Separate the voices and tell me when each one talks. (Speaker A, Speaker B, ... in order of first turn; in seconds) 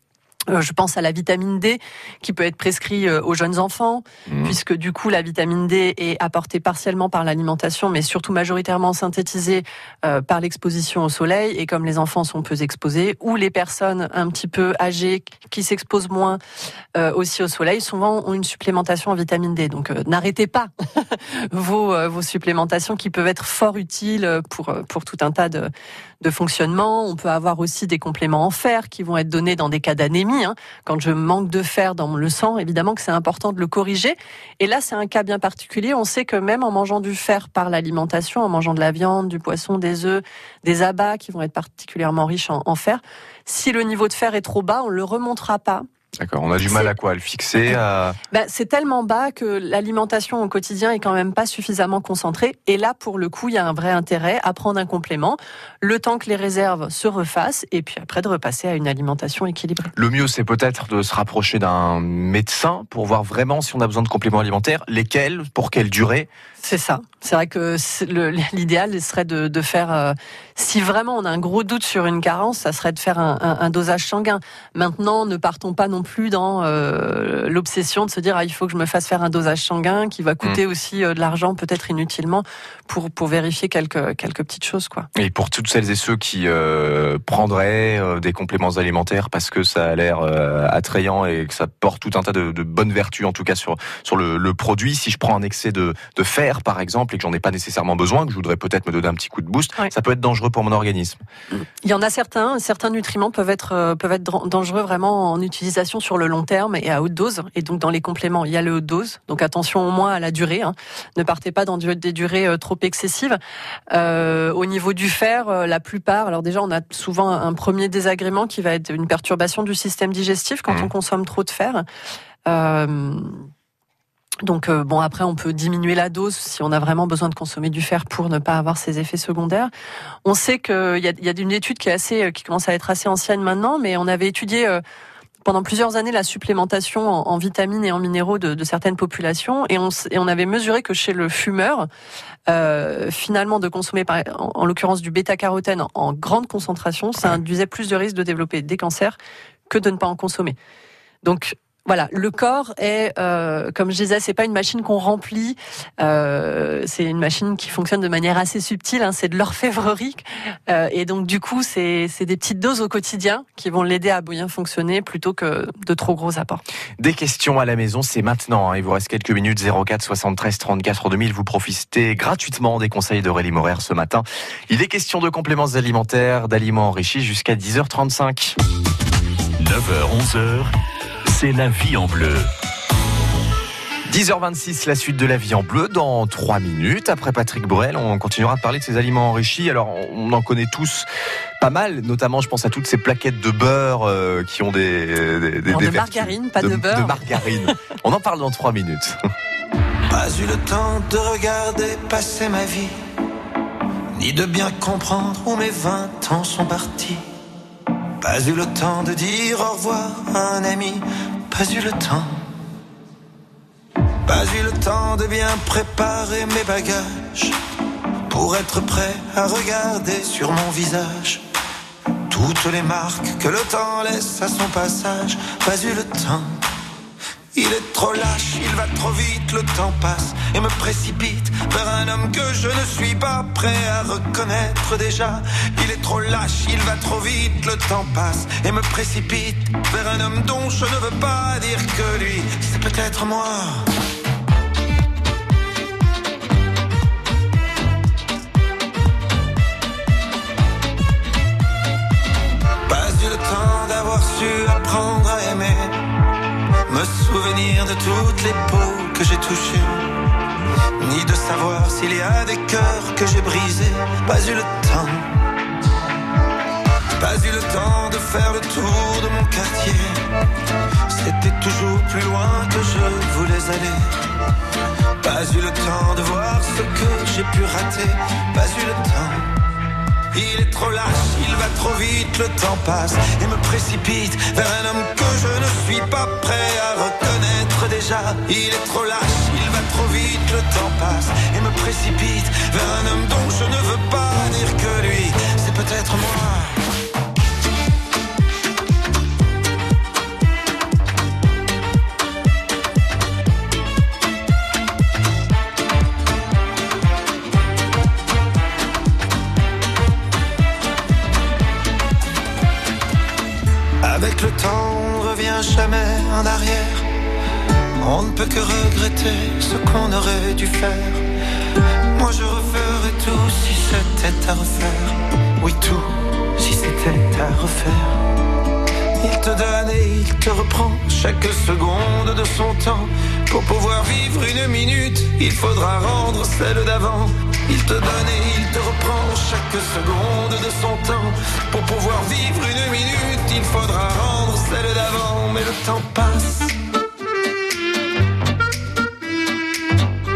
Speaker A: 0.5-16.4, 16.9-25.7, 26.2-45.9, 46.7-46.9, 48.3-59.9, 66.6-85.1, 101.5-113.4, 113.9-121.8, 122.5-123.5, 124.4-129.7, 130.2-134.8, 135.4-141.9, 142.5-149.2, 149.7-150.6, 151.2-166.6, 195.7-197.5
Speaker B: 4.3-4.5, 46.2-48.1, 60.0-66.3, 85.1-101.2, 167.0-178.6, 184.1-191.1, 191.6-199.2
Speaker C: 179.6-180.7, 181.2-182.5
Speaker D: 200.1-203.0, 204.1-207.2, 208.2-212.4, 214.2-217.6, 218.3-221.4, 222.3-226.6, 227.5-243.8, 252.9-256.0, 256.9-260.1, 261.0-265.3, 267.2-270.2, 271.1-274.1, 275.2-279.5, 280.3-296.8, 314.0-317.1, 318.0-321.2, 322.1-328.2, 329.2-346.7